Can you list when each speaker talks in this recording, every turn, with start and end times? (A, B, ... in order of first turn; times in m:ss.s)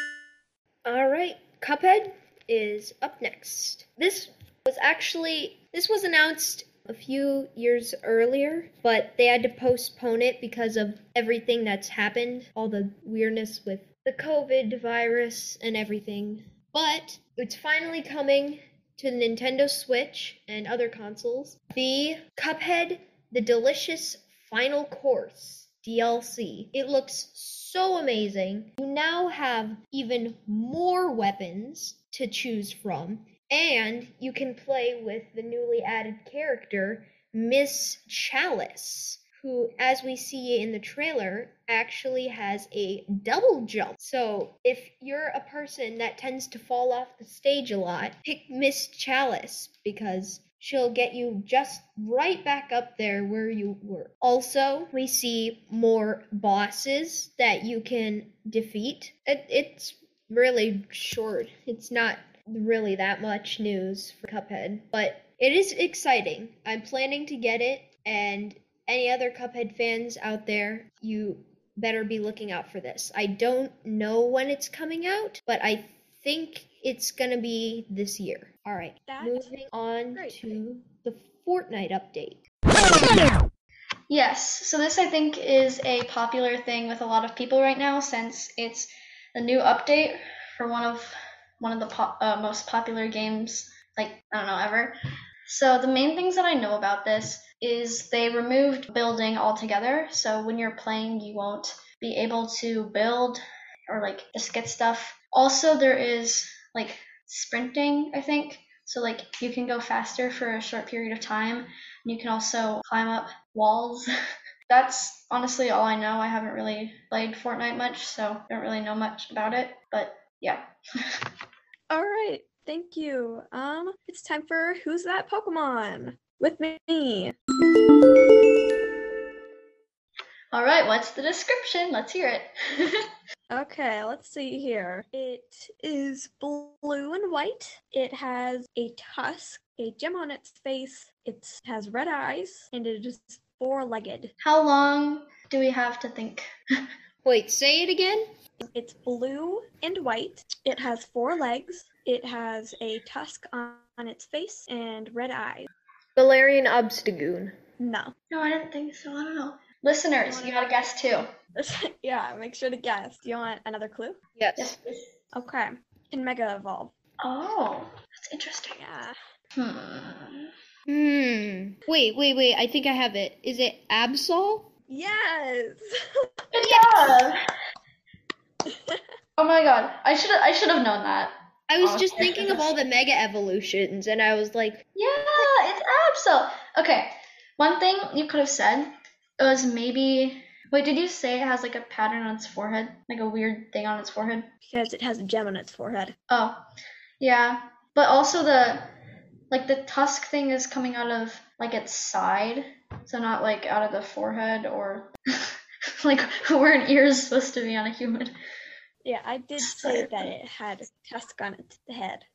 0:00.8-1:22.4 A
1:19.0-1:19.6 B
1:20.1-1:20.6 B
1:24.1-1:34.9 C
1:35.4-1:54.1 C
1:54.7-2:00.6 C
2:01.9-2:07.3 B
2:10.5-2:13.0 C
2:13.5-2:24.3 B
2:24.4-2:26.5 C
2:27.2-2:28.2 A
2:28.6-2:35.7 B
2:36.2-2:37.5 A
2:37.8-2:38.1 B
2:38.3-2:41.2 C
2:40.2-2:40.9 B
2:41.6-2:44.2 B
2:44.4-2:44.7 A
2:44.6-2:45.1 C
2:45.3-2:46.9 B
2:47.2-2:48.8 C
2:48.7-2:49.1 B
2:49.6-2:50.5 C
2:50.9-2:54.7 A
2:54.9-2:55.8 B
2:56.5-2:57.4 C
2:56.6-2:56.9 A
2:59.4-3:02.7 C
3:01.7-3:04.8 A
3:04.9-3:14.5 C
3:14.6-3:16.1 B
3:16.3-3:16.6 C
3:17.2-3:18.9 C
3:19.5-3:25.1 C
3:26.0-3:28.3 C
3:29.0-3:32.2 B
3:29.6-3:30.1 C